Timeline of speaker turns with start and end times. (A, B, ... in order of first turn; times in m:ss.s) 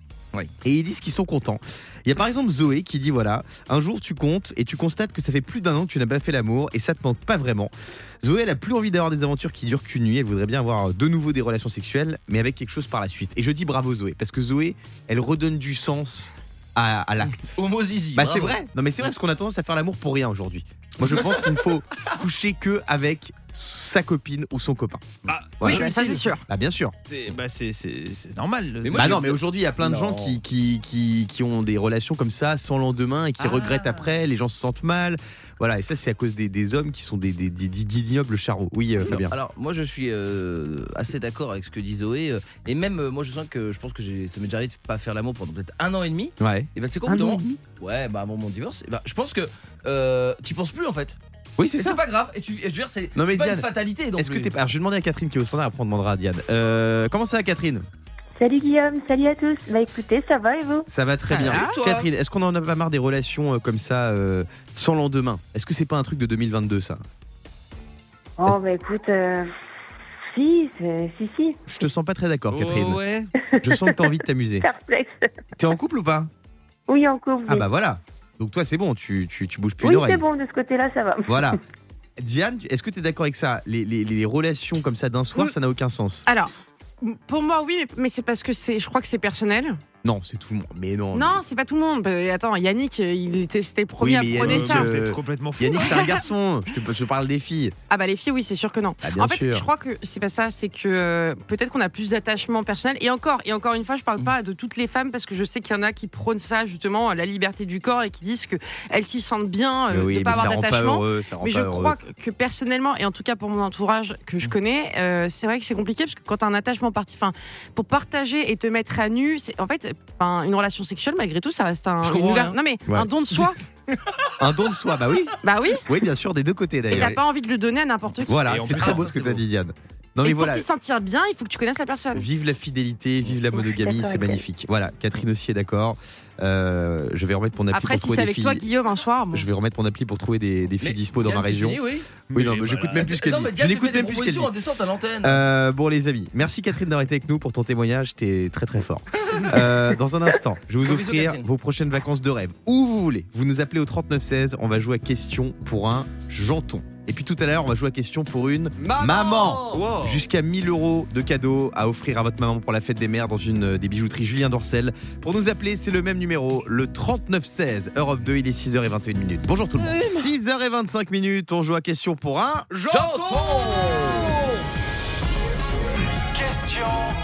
0:00.6-0:17.6 A
0:17.6-0:18.6 B
0:18.1-0:26.9 A
0:25.3-0:26.3 C
0:25.6-0:26.4 D
0:27.1-0:29.3 C
0:28.8-0:30.3 B
0:29.0-0:39.3 A
0:33.4-0:34.1 C
0:39.0-0:51.2 B
0:46.4-0:47.6 A
0:51.6-0:52.0 A
0:51.8-0:54.5 B
0:53.2-0:57.9 A
0:58.4-1:00.9 E
1:00.9-1:07.0 A
1:01.3-1:01.8 D
1:08.4-1:09.5 E
1:10.3-1:11.6 E
1:11.7-1:13.0 A
1:12.5-1:13.3 C
1:13.5-1:15.4 E
1:13.6-1:14.7 A
1:15.6-1:16.3 A
1:16.9-1:17.6 E
1:17.4-1:20.2 A
1:19.8-1:21.6 E
1:21.3-1:21.6 A
1:22.2-1:26.2 A
1:26.2-1:29.8 D
1:30.0-1:31.4 A
1:31.1-1:34.9 D
1:34.0-1:37.7 A
1:34.3-1:36.1 C
1:37.9-2:03.6 D
1:39.0-1:39.7 A
1:49.9-1:52.0 A
2:02.0-2:02.6 B
2:04.4-2:07.2 A
2:05.4-2:05.8 D
2:06.9-2:08.4 D
2:08.3-2:10.7 A
2:08.4-2:09.1 C
2:08.7-2:09.4 B
2:10.2-2:12.2 D
2:12.1-2:18.6 A
2:13.5-2:14.4 E
2:17.7-2:19.5 D
2:19.3-2:21.8 A
2:20.8-2:22.1 B
2:22.3-2:23.1 C
2:22.3-2:24.5 A
2:23.0-2:25.4 B
2:25.2-2:52.7 A
2:30.8-2:31.4 B
2:39.0-2:40.2 B
2:52.8-2:53.4 C
2:52.8-2:54.4 B